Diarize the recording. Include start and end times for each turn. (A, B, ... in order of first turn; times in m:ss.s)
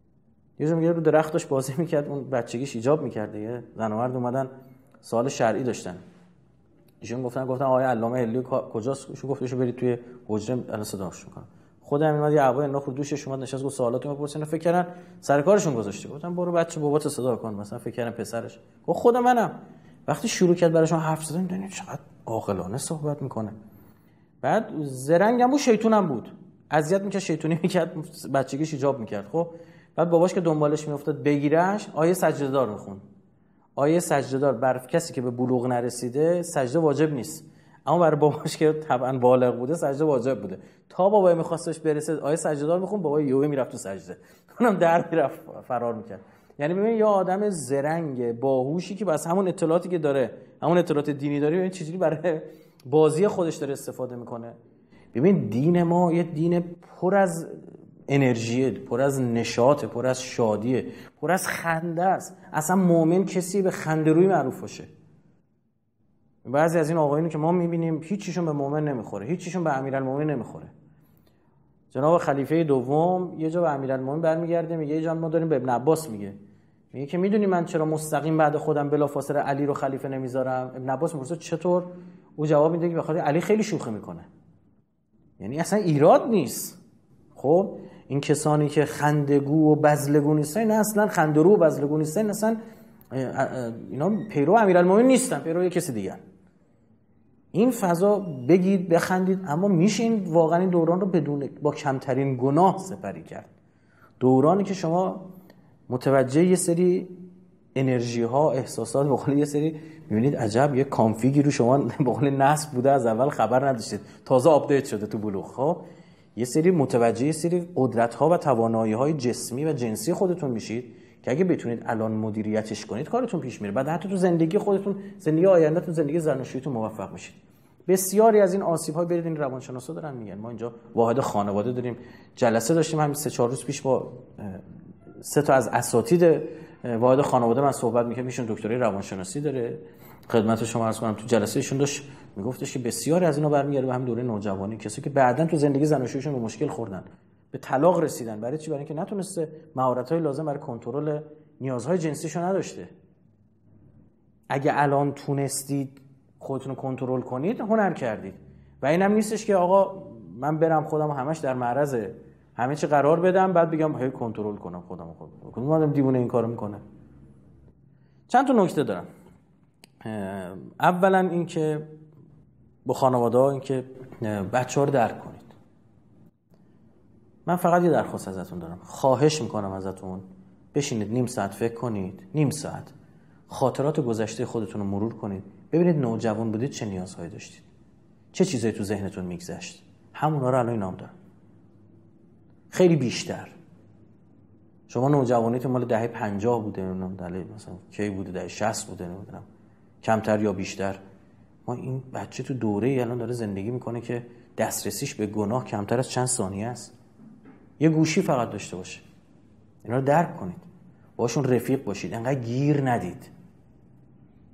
0:00.6-0:04.5 A
0:05.0-0:06.0 A
0:07.0-0:19.5 A
0:20.1-0:23.5 A
0:24.4-0:33.0 A
0:33.8-0:54.5 A
0:55.1-1:04.9 A
1:06.4-1:10.7 A
1:11.9-1:16.4 A
1:16.9-1:24.3 A
1:25.4-1:26.8 A
1:27.3-1:32.6 A
1:33.1-1:36.2 A
1:37.5-1:43.5 A
1:44.2-1:45.2 A
1:45.9-1:47.2 A
1:47.8-1:55.8 A
1:56.4-2:14.6 A
2:15.2-2:32.9 A
2:34.5-2:46.8 A
2:48.3-2:49.1 A
2:50.0-2:51.9 A
2:52.8-2:55.5 A
2:57.4-3:02.9 A
3:03.5-3:07.7 A
3:08.3-3:11.1 A
3:12.7-3:13.5 A
3:14.9-3:19.4 A
3:20.0-3:21.0 A
3:21.6-3:26.9 A
3:27.8-3:29.0 A
3:29.8-3:30.6 A
3:31.2-3:33.3 A